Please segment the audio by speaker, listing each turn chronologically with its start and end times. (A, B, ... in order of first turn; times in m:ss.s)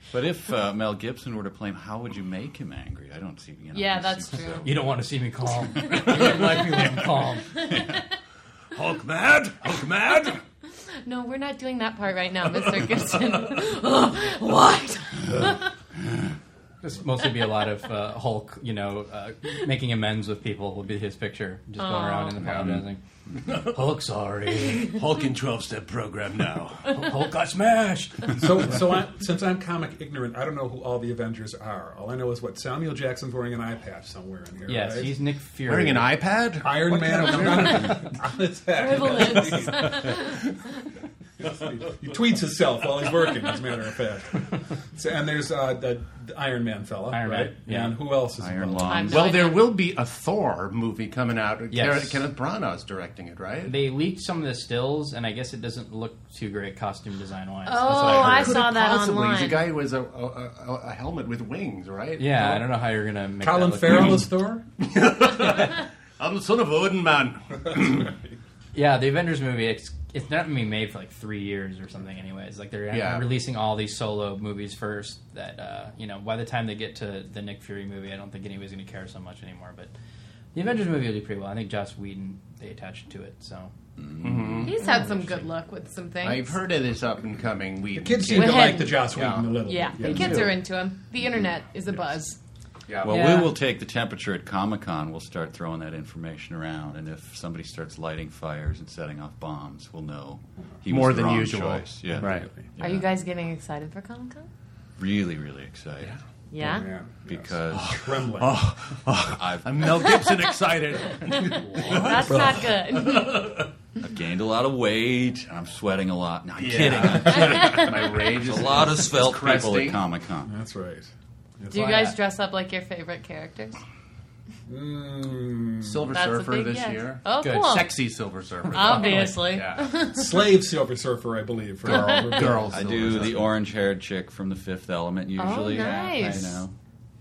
0:00.1-0:04.7 A
0:03.7-0:04.8 B
0:04.6-0:07.6 C
0:05.8-0:07.0 A
0:05.9-0:06.5 B
0:07.4-0:08.1 B
0:07.7-0:08.0 A
0:08.7-0:10.4 D
0:11.0-0:15.7 B
0:12.6-0:13.2 D
0:16.8-0:25.0 C
0:21.8-0:22.5 B
0:22.4-0:22.8 D
0:23.4-0:28.8 D
0:28.4-0:35.2 E
0:34.7-0:36.1 C
0:35.7-0:38.1 D
0:36.6-0:40.2 E
0:37.2-0:38.0 B
0:38.7-0:40.5 B
0:41.4-0:49.1 E
0:47.1-0:48.0 C
0:48.4-0:49.3 A
0:48.9-0:49.7 B
0:49.1-0:53.8 D
0:51.7-0:52.2 C
0:53.6-0:58.6 C
0:57.7-0:59.6 B
0:58.0-1:02.7 D
1:02.2-1:04.3 C
1:03.4-1:04.7 E
1:04.8-1:08.1 D
1:07.6-1:08.3 E
1:08.8-1:19.9 C
1:12.9-1:13.3 D
1:20.5-1:23.7 C
1:24.0-1:24.7 A
1:24.2-1:24.8 D
1:24.6-1:26.6 B
1:24.8-1:25.5 C
1:26.2-1:30.6 D
1:27.9-1:30.6 E
1:28.3-1:29.1 B
1:29.6-1:32.4 B
1:32.9-1:33.4 D
1:33.0-1:43.1 A
1:33.0-1:33.5 C
1:40.9-1:42.5 D
1:42.1-1:42.7 E
1:42.8-1:44.5 B
1:45.0-1:46.2 A
1:46.5-1:46.9 B
1:46.6-1:48.6 E
1:47.3-1:48.2 A
1:47.7-1:53.6 D
1:49.3-1:50.3 A
1:51.3-1:52.5 E
1:51.8-1:53.6 B
1:54.0-2:00.5 A
1:56.6-2:00.0 D
1:57.3-1:58.1 B
2:00.4-2:02.1 E
2:01.7-2:03.8 B
2:04.7-2:06.2 E
2:05.8-2:09.9 D
2:06.1-2:07.9 B
2:07.4-2:07.8 C
2:08.7-2:10.5 B
2:08.8-2:09.4 C
2:10.1-2:13.4 E
2:11.8-2:13.5 D
2:11.9-2:12.5 B
2:12.7-2:16.7 A
2:15.4-2:16.5 B
2:16.2-2:16.5 C